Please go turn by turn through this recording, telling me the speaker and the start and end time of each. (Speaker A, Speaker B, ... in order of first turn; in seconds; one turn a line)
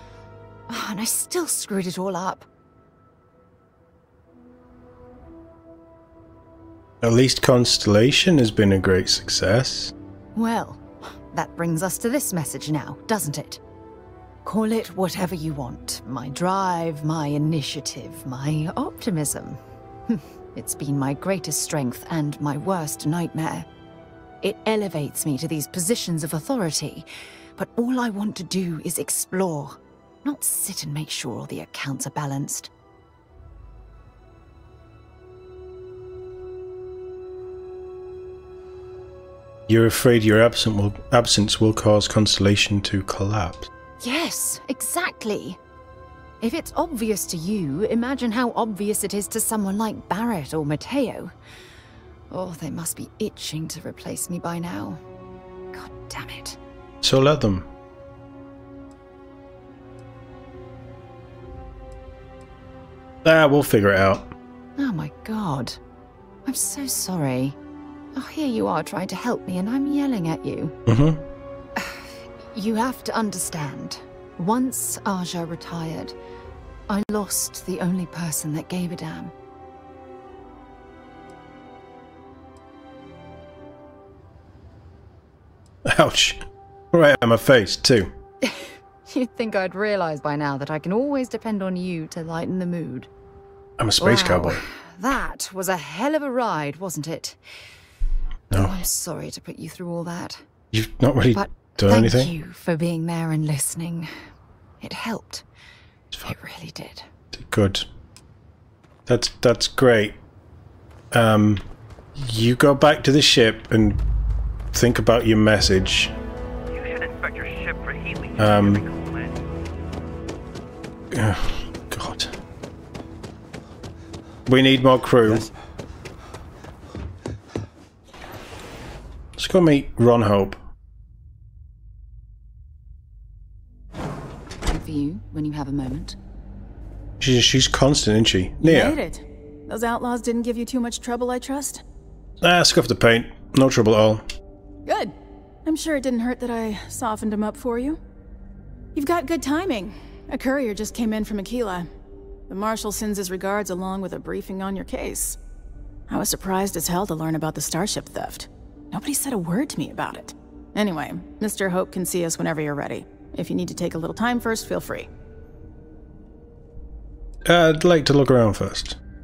Speaker A: 0.7-2.5
Speaker B: 7.0-9.9
Speaker A: 10.3-13.6
Speaker A: 14.4-23.7
Speaker A: 24.4-32.7
Speaker B: 39.7-43.7
Speaker A: 44.0-45.6
Speaker A: 46.4-51.3
Speaker A: 52.3-55.0
Speaker A: 55.7-56.6
Speaker B: 57.0-57.7
Speaker B: 63.2-64.3
Speaker A: 64.8-65.8
Speaker A: 66.5-67.6
Speaker A: 68.1-70.8
Speaker B: 70.9-71.2
Speaker A: 71.8-76.1
Speaker A: 76.9-79.3
Speaker B: 85.9-88.1
Speaker A: 88.4-93.1
Speaker B: 93.8-94.6
Speaker A: 94.0-97.4
Speaker B: 98.5-98.8
Speaker A: 98.5-100.4
Speaker B: 100.7-102.3
Speaker A: 101.3-104.1
Speaker A: 104.8-105.4
Speaker A: 106.2-107.1
Speaker B: 107.3-107.9
Speaker B: 109.1-110.2
Speaker B: 111.1-111.6
Speaker B: 112.2-114.0
Speaker B: 114.7-116.1
Speaker C: 116.7-119.4
Speaker B: 118.4-118.8
Speaker B: 121.1-122.3
Speaker B: 124.5-125.5
Speaker B: 129.4-130.6
Speaker A: 134.7-136.2
Speaker B: 137.2-139.0
Speaker D: 138.6-141.8
Speaker B: 142.4-144.2
Speaker D: 144.8-145.1
Speaker D: 145.6-148.0
Speaker D: 148.9-151.9
Speaker D: 152.5-155.4
Speaker D: 156.1-165.1
Speaker B: 167.4-169.0